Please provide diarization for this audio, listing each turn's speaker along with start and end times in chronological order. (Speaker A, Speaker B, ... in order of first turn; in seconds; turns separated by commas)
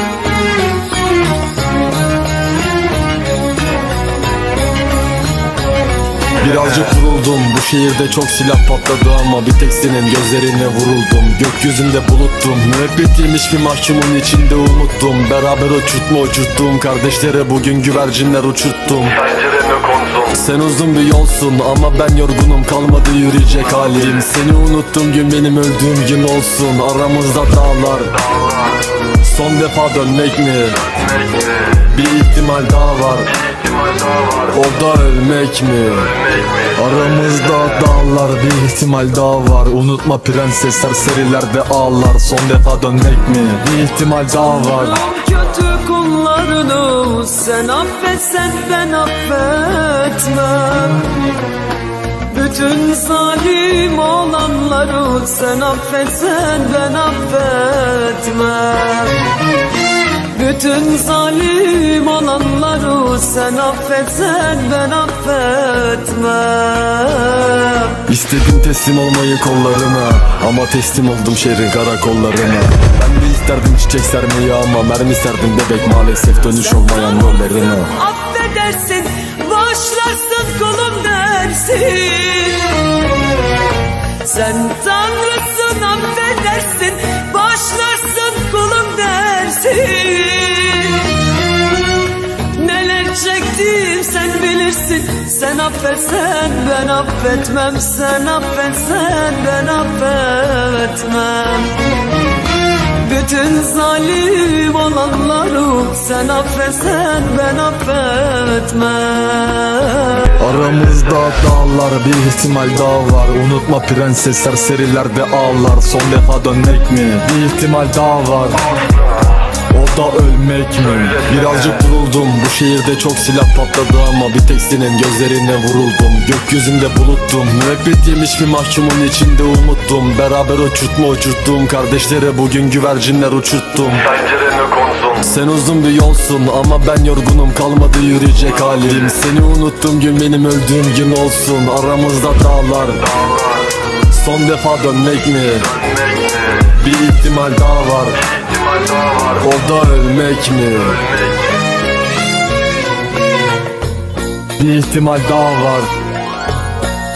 Speaker A: 6.4-19.3, Speaker B: 19.4-20.1, Speaker A: 20.1-28.2, Speaker A: 29.2-31.0, Speaker A: 31.8-33.3, Speaker B: 33.8-34.4, Speaker A: 34.4-44.9, Speaker C: 44.6-51.1, Speaker C: 52.3-59.2, Speaker C: 60.3-68.0, Speaker A: 68.1-77.9, Speaker C: 76.5-82.9, Speaker C: 84.2-91.3, Speaker C: 92.5-101.8, Speaker C: 103.0-110.4, Speaker A: 110.4-118.6, Speaker A: 119.7-143.2, Speaker B: 134.6-135.0, Speaker A: 144.1-145.8, Speaker A: 146.6-148.2, Speaker B: 148.8-149.2, Speaker A: 149.3-151.0, Speaker A: 154.6-155.9